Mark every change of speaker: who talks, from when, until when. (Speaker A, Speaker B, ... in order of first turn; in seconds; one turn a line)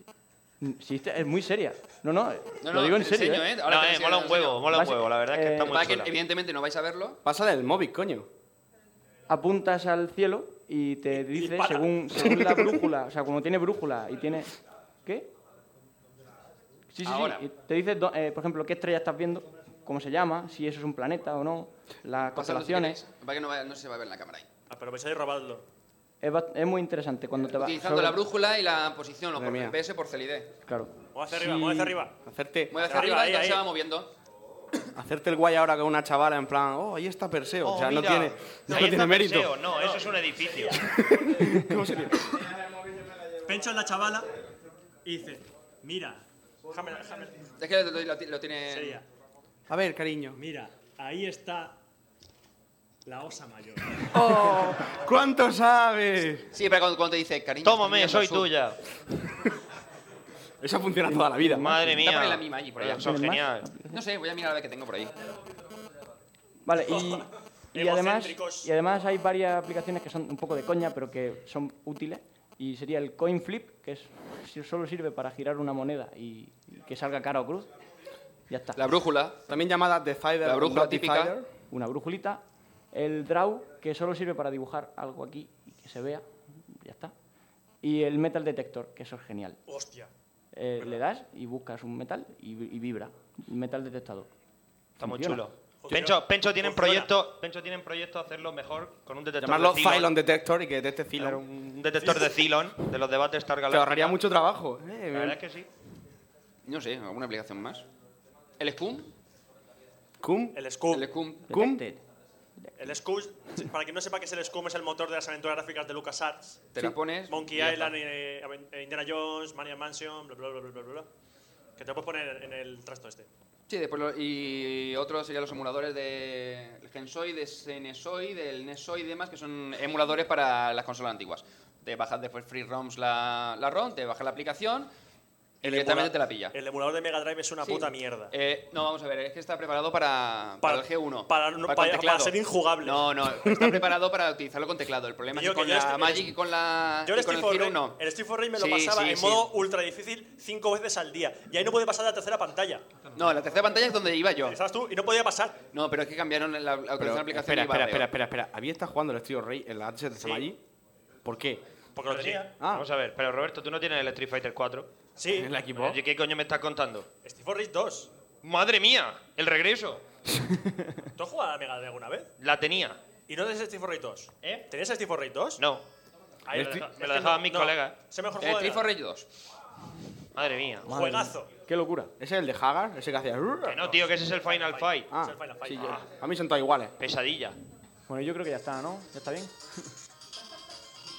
Speaker A: 0.6-3.5
Speaker B: 2.6-4.7
Speaker C: 3.6-6.2
Speaker A: 4.7-5.8
Speaker B: 5.6-7.2
Speaker D: 7.2-8.3
Speaker A: 9.3-15.3
Speaker E: 11.2-12.0
Speaker D: 12.2-12.7
Speaker A: 16.9-23.0
Speaker B: 17.0-17.4
Speaker B: 22.3-24.5
Speaker E: 24.7-25.6
Speaker A: 26.2-28.2
Speaker B: 27.5-30.5
Speaker D: 29.4-29.8
Speaker A: 30.7-32.0
Speaker E: 31.1-32.2
Speaker D: 32.2-32.8
Speaker B: 32.7-34.1
Speaker E: 32.8-33.7
Speaker D: 35.0-39.6
Speaker C: 37.7-40.9
Speaker E: 39.8-40.8
Speaker D: 40.8-42.5
Speaker E: 43.4-44.3
Speaker E: 45.0-47.5
Speaker B: 47.6-49.0
Speaker E: 48.7-49.0
Speaker D: 49.7-50.4
Speaker E: 50.4-51.8
Speaker E: 53.0-54.1
Speaker D: 54.1-56.5
Speaker B: 56.5-58.5
Speaker C: 57.6-58.8
Speaker D: 60.6-61.8
Speaker A: 61.1-61.9
Speaker C: 61.5-63.7
Speaker B: 61.9-63.1
Speaker A: 63.0-64.0
Speaker B: 63.9-65.2
Speaker A: 66.7-77.7
Speaker E: 66.8-68.7
Speaker A: 78.5-78.8
Speaker B: 78.8-79.4
Speaker D: 79.5-81.5
Speaker B: 80.4-81.3
Speaker A: 81.7-87.1
Speaker A: 87.8-89.6
Speaker E: 89.7-90.1
Speaker A: 90.5-94.3
Speaker A: 95.0-95.4
Speaker C: 95.0-100.2
Speaker E: 95.8-97.1
Speaker D: 99.4-101.4
Speaker C: 101.2-104.2
Speaker D: 103.7-105.4
Speaker C: 105.1-105.7
Speaker B: 106.7-107.8
Speaker B: 108.6-109.1
Speaker D: 110.2-110.6
Speaker E: 110.5-111.1
Speaker B: 110.9-111.5
Speaker A: 111.5-112.0
Speaker D: 111.5-111.9
Speaker E: 112.8-116.7
Speaker B: 116.7-118.0
Speaker E: 117.3-121.1
Speaker E: 121.8-123.3
Speaker B: 123.7-134.9
Speaker B: 135.6-136.6
Speaker E: 135.6-138.3
Speaker B: 137.6-148.0
Speaker E: 140.6-143.2
Speaker D: 143.4-143.8
Speaker E: 145.3-146.3
Speaker E: 147.0-152.9
Speaker B: 148.6-149.5
Speaker B: 153.1-154.6
Speaker E: 154.4-155.6
Speaker B: 155.7-158.1
Speaker D: 157.0-160.6
Speaker D: 161.2-161.6
Speaker E: 162.0-162.5
Speaker C: 162.1-164.9
Speaker D: 162.6-162.9
Speaker E: 165.2-165.5
Speaker D: 165.3-166.0
Speaker C: 165.8-167.1
Speaker E: 167.2-168.1
Speaker C: 168.4-170.0
Speaker E: 171.2-172.3
Speaker C: 172.4-173.0
Speaker E: 173.3-175.6
Speaker C: 174.4-174.7
Speaker C: 175.6-175.8
Speaker E: 176.5-178.9
Speaker C: 176.5-178.0
Speaker B: 178.4-179.3
Speaker C: 180.3-180.9
Speaker E: 180.9-181.5
Speaker A: 180.9-182.1
Speaker D: 182.2-183.9
Speaker C: 183.7-185.1
Speaker E: 184.4-186.1
Speaker D: 185.1-186.9
Speaker C: 187.0-187.6
Speaker A: 188.1-189.5